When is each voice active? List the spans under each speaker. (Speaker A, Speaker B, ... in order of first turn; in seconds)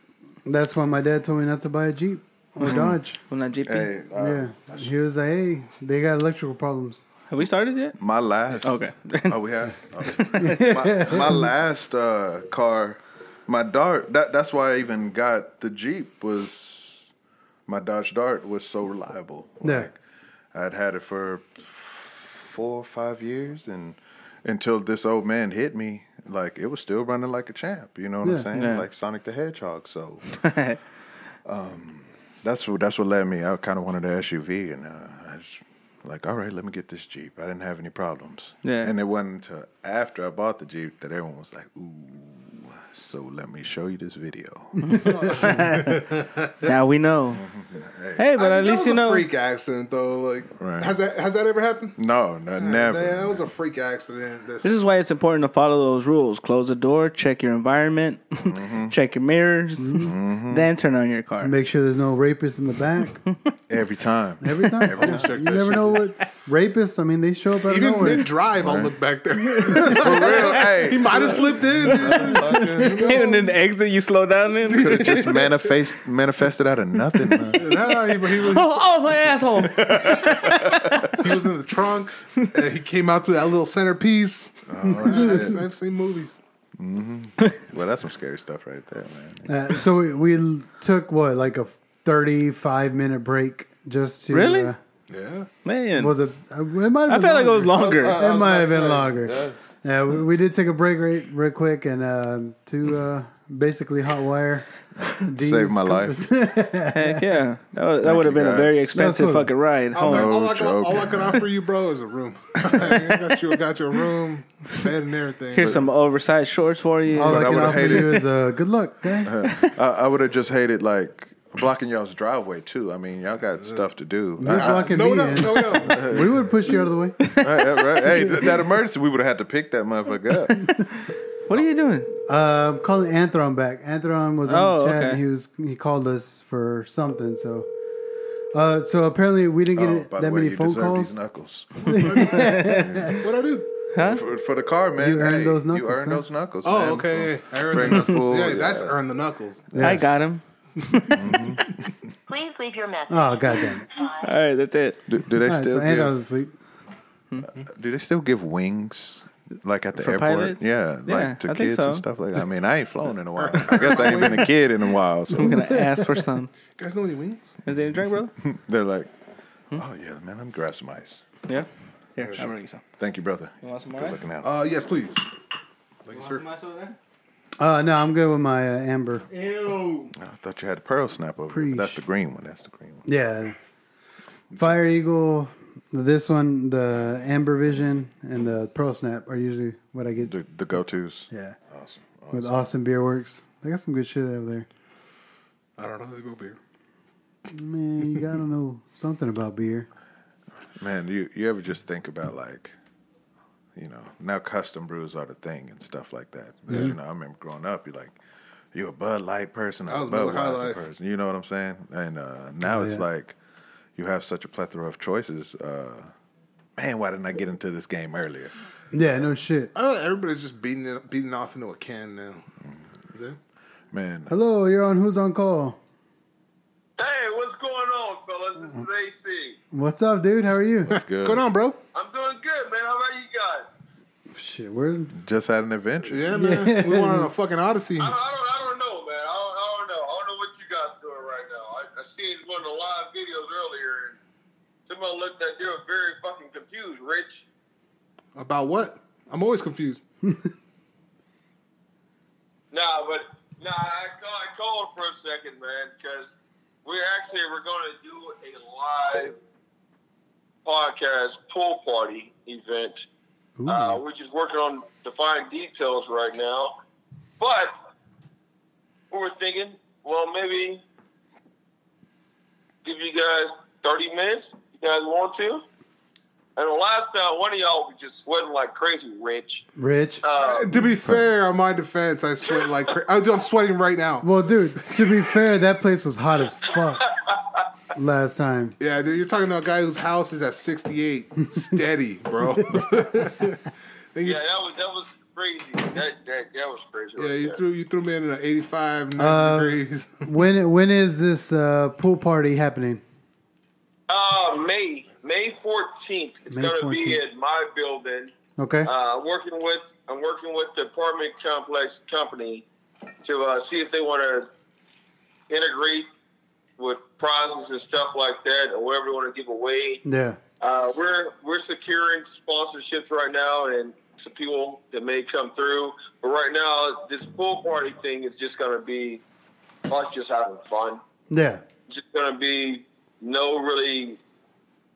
Speaker A: 0.5-3.2, 4.2-7.0, 10.4-11.4, 19.6-19.9, 59.8-60.1, 61.4-63.2, 64.4-68.3, 84.9-85.3, 89.5-94.8, 96.0-104.7, 105.2-107.2, 108.9-109.5, 117.1-119.3, 124.4-127.2, 132.3-137.7, 138.5-141.2, 141.9-143.2, 145.0-146.2, 149.7-150.1, 153.1-153.9, 155.4-156.5, 177.6-179.2, 181.5-182.0, 183.1-183.6, 184.6-190.3, 191.3-191.6, 192.3-194.7, 197.5-199.9, 212.6-213.0, 218.9-219.7, 224.3-225.8, 229.7-230.9, 234.3-235.1, 236.3-237.3, 263.6-264.0, 279.8-280.2, 284.2-287.1, 287.9-288.8, 299.2-303.0, 306.5-307.2, 308.6-308.9, 320.0-320.4, 331.3-331.6
Speaker B: 2.6-3.9, 7.3-8.0, 8.6-9.4, 10.1-10.8, 28.5-28.9, 30.4-30.8, 38.6-38.9, 44.8-46.1, 46.6-47.4, 48.2-49.3, 54.6-61.5, 69.6-75.3, 77.5-81.2, 94.3-94.7, 95.6-96.1, 97.1-98.2, 106.9-110.3, 115.5-118.2, 119.5-119.7, 127.2-128.4, 130.5-132.1, 134.5-135.2, 142.4-143.1, 143.9-144.2, 149.8-151.6, 154.2-155.0, 159.9-162.0, 163.9-164.3, 165.3-166.5, 167.7-168.3, 171.5-172.8, 173.6-174.2, 176.1-177.0, 179.3-180.1
Speaker C: 2.6-3.0, 3.6-4.8, 8.0-17.1, 17.7-20.0, 20.5-30.4, 31.4-45.0, 47.3-48.2, 50.6-50.9, 52.0-53.5, 58.4-59.0, 60.0-60.7, 63.7-66.0, 68.5-69.0, 69.9-73.3, 74.7-77.7, 79.6-81.1, 84.7-85.6, 86.8-89.7, 97.8-99.6, 105.0-106.3, 108.0-108.9, 110.0-111.4, 117.2-118.2, 119.2-126.3, 127.4-130.7, 139.7-142.1, 142.8-143.2, 143.9-149.0, 149.7-150.0, 151.1-151.9, 155.1-156.1, 157.6-165.8, 168.4-169.1, 169.7-171.2, 173.0-174.5, 180.1-183.1, 190.2-192.7, 200.8-202.7, 203.7-208.2, 208.7-213.3, 213.9-216.1, 216.8-218.5, 223.9-224.3, 230.8-231.4, 235.1-236.3, 280.7-281.2
Speaker D: 44.9-46.7, 48.4-52.0, 52.6-54.8, 65.0-66.0, 67.7-73.5, 74.7-75.6, 77.5-78.7, 81.2-86.4, 95.1-95.5, 98.0-98.7, 109.9-115.8, 124.4-126.1, 141.8-143.7, 146.6-149.7, 163.4-164.5, 166.8-167.6, 172.2-172.5, 174.4-175.2, 176.1-176.4, 195.8-196.6, 206.7-206.9, 209.9-210.8, 219.7-222.4, 223.1-223.4, 231.1-231.8, 236.1-238.1, 248.3-250.0, 280.4-284.2, 288.8-293.6, 294.1-294.4, 297.2-300.2
Speaker E: 152.3-154.3
Speaker F: 227.0-229.6, 231.9-233.7, 238.0-244.2, 244.9-247.4, 252.7-256.3, 256.8-259.4, 260.6-263.1, 263.6-266.8, 267.4-267.7, 269.1-270.8, 272.8-275.6, 276.6-279.6, 280.2-280.7, 287.0-287.6, 294.2-297.6, 304.1-312.6, 313.2-314.5, 315.5-316.1, 316.8-320.0, 320.6-329.2, 329.9-331.0, 331.9-334.2